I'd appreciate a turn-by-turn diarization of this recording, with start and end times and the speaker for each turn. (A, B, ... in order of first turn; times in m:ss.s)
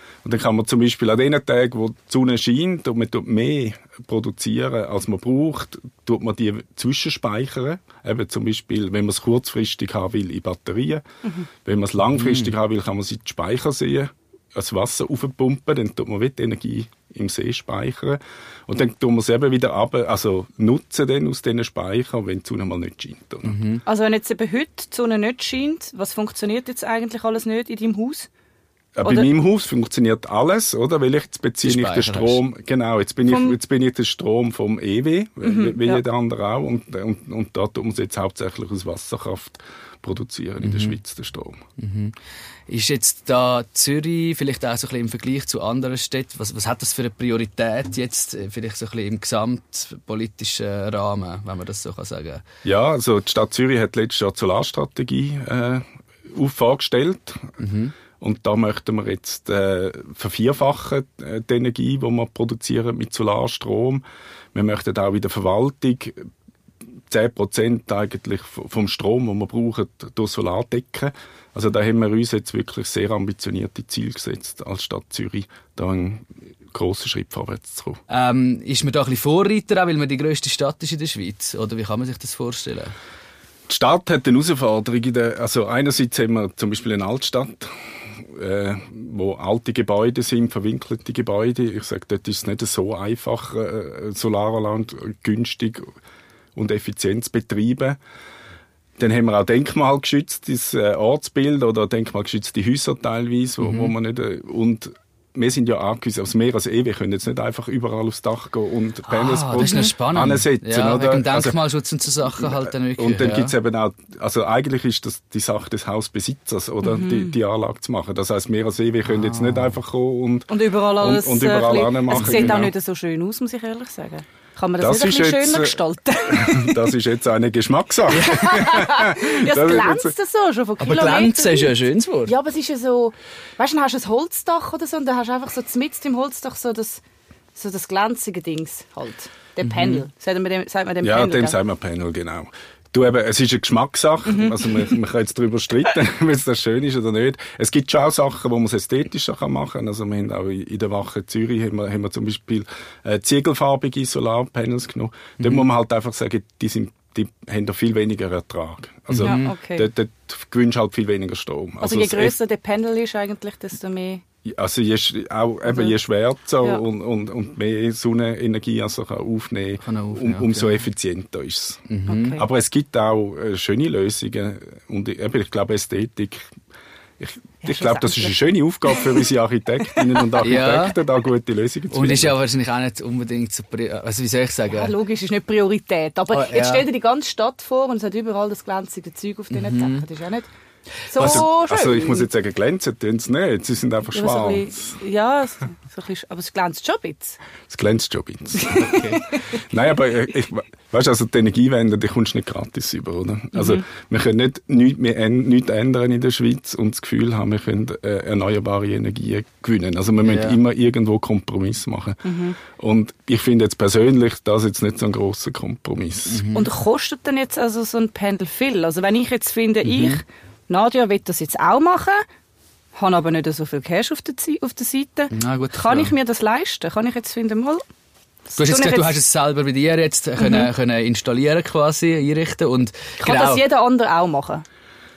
0:00.2-0:11.0 A
0:11.6-0:23.6 A
0:12.1-0:12.5 B
0:23.4-0:23.8 B
0:23.8-0:28.3 C
0:29.0-0:41.6 A
0:29.0-0:29.3 C
0:31.6-0:32.4 B
0:33.3-0:33.6 C
0:35.4-0:36.0 C
0:40.6-0:41.0 B
0:41.8-0:42.1 B
0:42.7-0:52.4 B
0:52.6-0:57.6 A
0:57.6-0:57.9 B
0:58.2-1:06.2 A
1:07.1-1:18.0 A
1:18.1-1:22.9 B
1:23.7-1:27.7 A
1:28.2-1:35.9 A
1:36.5-1:38.0 A
1:39.0-1:51.6 A
1:43.6-1:43.9 B
1:49.0-1:53.5 B
1:52.5-2:02.7 A
1:56.8-1:57.4 C
1:59.0-1:59.8 B
2:00.5-2:06.8 C
2:02.1-2:02.7 B
2:04.8-2:10.1 A
2:08.2-2:17.0 C
2:10.8-2:12.3 B
2:17.5-2:21.6 C
2:19.6-2:20.0 B
2:21.0-2:42.4 A
2:24.2-2:24.8 C
2:35.4-2:35.6 B
2:39.1-2:39.5 B
2:39.2-2:39.9 C
2:41.8-2:44.2 C
2:44.4-2:56.4 A
2:45.7-2:46.0 C
2:49.8-2:50.8 B
2:51.9-2:52.4 B
2:52.1-2:52.4 C
2:57.2-3:02.4 A
2:57.6-2:58.4 C
3:00.4-3:01.0 B
3:01.9-3:04.9 B
3:04.7-3:10.5 C
3:06.3-3:06.9 B
3:09.5-3:10.0 B
3:11.1-3:12.3 C
3:11.1-3:11.4 B
3:11.2-3:15.0 A
3:14.1-3:17.4 C
3:17.7-3:19.0 A
3:18.6-3:19.4 C
3:18.8-3:19.2 B
3:19.6-3:36.4 A
3:23.6-3:23.8 C
3:30.2-3:30.6 B
3:32.2-3:32.6 C
3:36.3-3:36.7 B
3:36.5-3:42.2 C
3:39.8-3:40.2 B
3:42.9-3:47.8 C
3:45.3-3:46.1 B
3:48.5-3:49.2 C
3:48.5-3:53.7 B
3:50.4-3:50.7 C
3:53.2-3:54.6 C